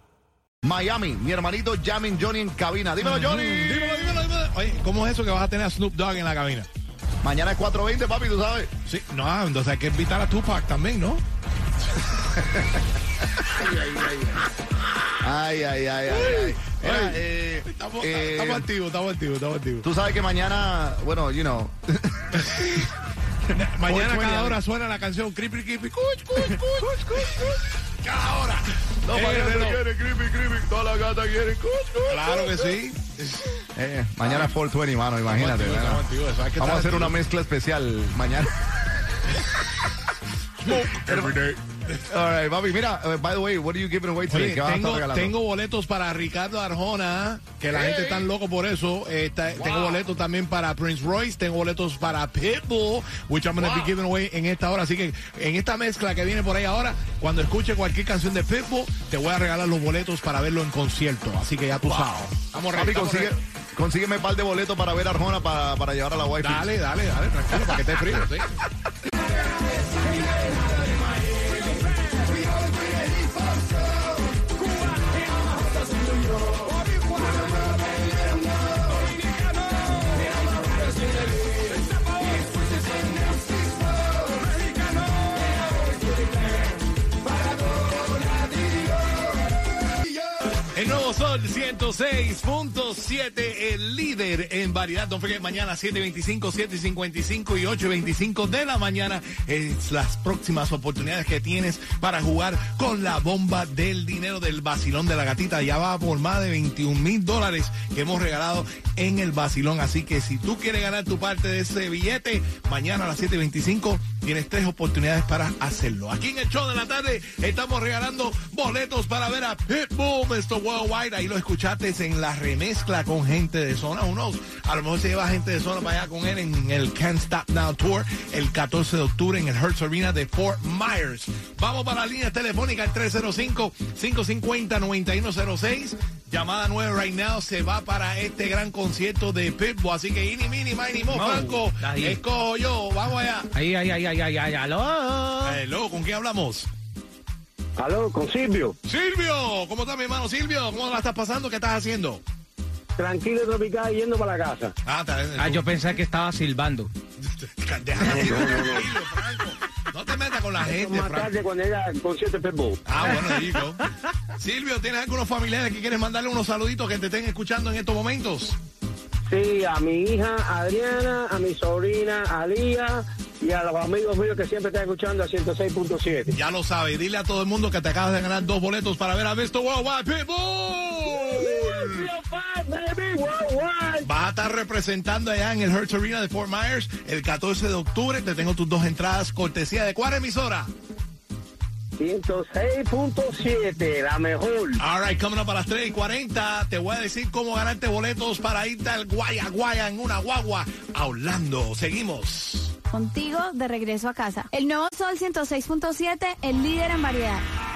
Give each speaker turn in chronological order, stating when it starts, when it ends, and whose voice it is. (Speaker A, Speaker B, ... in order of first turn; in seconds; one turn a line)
Speaker A: 0.6-4.1
Speaker B: 3.0-6.7
Speaker A: 7.2-8.7
Speaker B: 8.9-11.2
Speaker A: 12.4-12.7
Speaker B: 13.7-14.1
Speaker A: 15.2-18.7
Speaker B: 16.1-19.9
Speaker A: 19.8-22.9
Speaker B: 22.4-22.8
Speaker B: 23.5-27.4
Speaker A: 23.8-24.6
Speaker A: 26.4-27.6
Speaker B: 28.0-29.8
Speaker A: 29.1-32.7
Speaker B: 32.1-33.5
Speaker A: 33.8-36.0
Speaker B: 34.2-34.5
Speaker B: 35.3-37.2
Speaker A: 36.6-38.5
Speaker B: 40.6-42.0
Speaker A: 40.7-41.4
Speaker A: 42.1-45.4
Speaker B: 44.3-63.3
Speaker A: 47.7-48.3
Speaker A: 49.5-50.0
Speaker A: 53.6-53.9
Speaker A: 62.7-66.7
Speaker B: 66.4-68.5
Speaker B: 90.7-143.5
Speaker C: 141.1-142.2
Speaker C: 143.5-145.6
Speaker B: 145.4-146.7
Speaker D: 147.8-148.8
Speaker B: 148.9-152.2
Speaker D: 153.0-154.7
Speaker B: 154.8-155.7
Speaker C: 155.4-156.9
Speaker B: 157.2-161.3
Speaker A: 158.2-158.8
Speaker D: 160.6-162.8
Speaker B: 162.9-163.8
Speaker B: 164.4-168.6
Speaker D: 169.3-176.3
Speaker B: 176.3-182.1
Speaker D: 181.1-184.1
Speaker B: 184.0-190.7
Speaker D: 192.0-194.8
Speaker B: 194.8-202.7
Speaker E: 202.9-207.4